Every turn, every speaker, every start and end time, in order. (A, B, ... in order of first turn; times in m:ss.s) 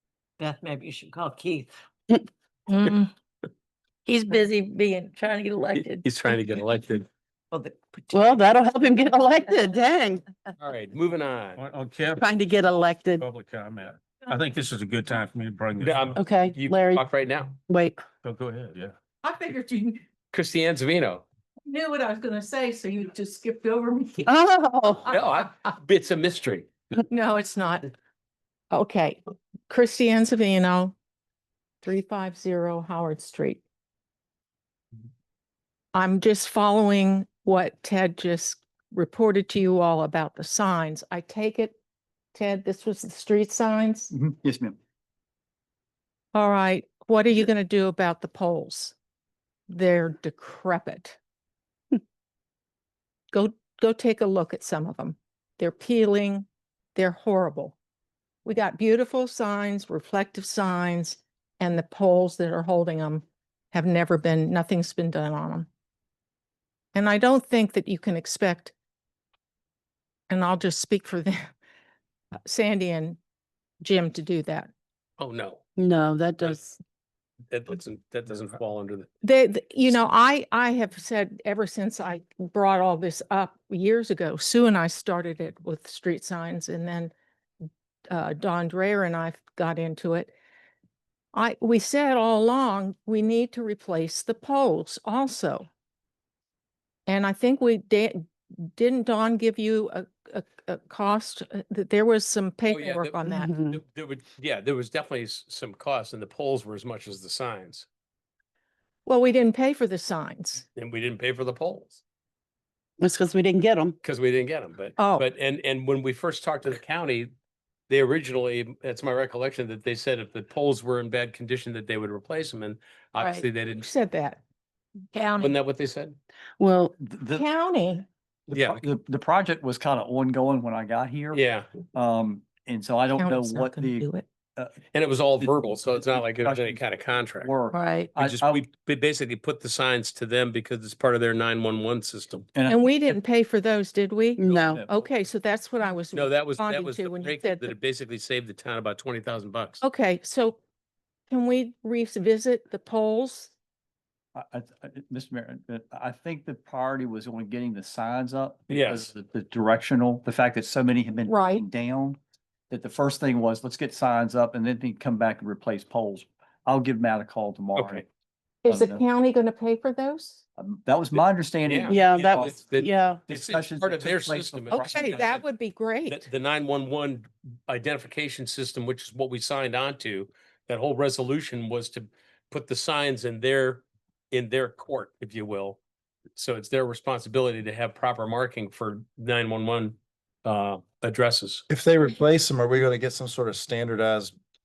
0:00.4-0:01.7 A
0:02.7-0:03.1 B
0:04.1-0:06.0 B
0:05.8-0:07.1 C
0:07.5-0:08.5 A
0:08.1-0:10.2 D
0:10.6-0:11.6 C
0:11.6-0:12.3 E
0:12.2-0:13.3 D
0:13.2-0:16.2 E
0:15.8-0:17.6 C
0:16.2-0:17.0 D
0:17.7-0:18.0 D
0:18.2-0:18.9 E
0:19.2-0:20.0 B
0:20.3-0:21.2 C
0:21.6-0:24.3 B
0:24.3-0:25.1 D
0:25.1-0:26.7 C
0:27.1-0:27.9 B
0:28.7-0:31.0 B
0:31.8-0:33.6 B
0:35.9-0:41.8 B
0:42.3-0:44.1 B
0:44.1-0:44.8 F
0:46.3-0:49.0 B
0:49.7-0:51.2 B
0:53.3-0:57.8 B
0:58.4-1:05.7 B
1:06.9-1:08.7 B
1:10.3-1:11.5 B
1:12.5-1:13.2 B
1:13.8-1:14.7 B
1:15.2-1:15.6 C
1:15.8-1:16.7 D
1:16.4-1:16.7 C
1:17.5-1:19.1 C
1:19.2-1:27.1 B
1:28.1-1:30.3 B
1:31.3-1:35.7 B
1:37.1-1:43.5 B
1:42.7-1:47.9 C
1:43.2-1:43.8 D
1:49.0-1:50.6 B
1:50.7-1:52.0 C
1:53.0-1:54.0 D
1:54.0-1:57.3 C
1:55.0-1:55.3 B
1:57.9-2:03.9 C
2:03.2-2:03.4 D
2:03.8-2:04.4 B
2:05.2-2:05.5 B
2:05.4-2:06.2 C
2:06.6-2:07.0 D
2:07.0-2:07.4 F
2:07.3-2:08.1 B
2:08.5-2:11.4 F
2:08.5-2:08.8 C
2:11.3-2:11.7 C
2:11.9-2:14.8 F
2:13.2-2:14.3 B
2:14.9-2:17.5 C
2:16.1-2:16.8 F
2:17.4-2:18.6 F
2:17.8-2:18.1 D
2:18.2-2:22.5 C
2:22.6-2:22.8 F
2:22.7-2:27.8 B
2:24.4-2:24.8 D
2:24.5-2:25.0 F
2:26.1-2:29.8 C
2:29.8-2:30.6 B
2:31.3-2:33.5 B
2:34.4-2:42.2 F
2:38.7-2:39.1 C
2:41.3-2:41.6 B
2:42.7-2:48.1 F
2:47.8-2:48.0 C
2:48.6-2:50.4 B
2:48.7-2:49.0 F
2:50.6-2:52.6 F
2:51.1-2:55.4 C
2:51.9-2:53.2 D
2:53.3-2:55.3 F
2:54.7-2:56.3 B
2:56.1-3:05.8 C
3:06.4-3:11.6 C
3:11.7-3:14.3 G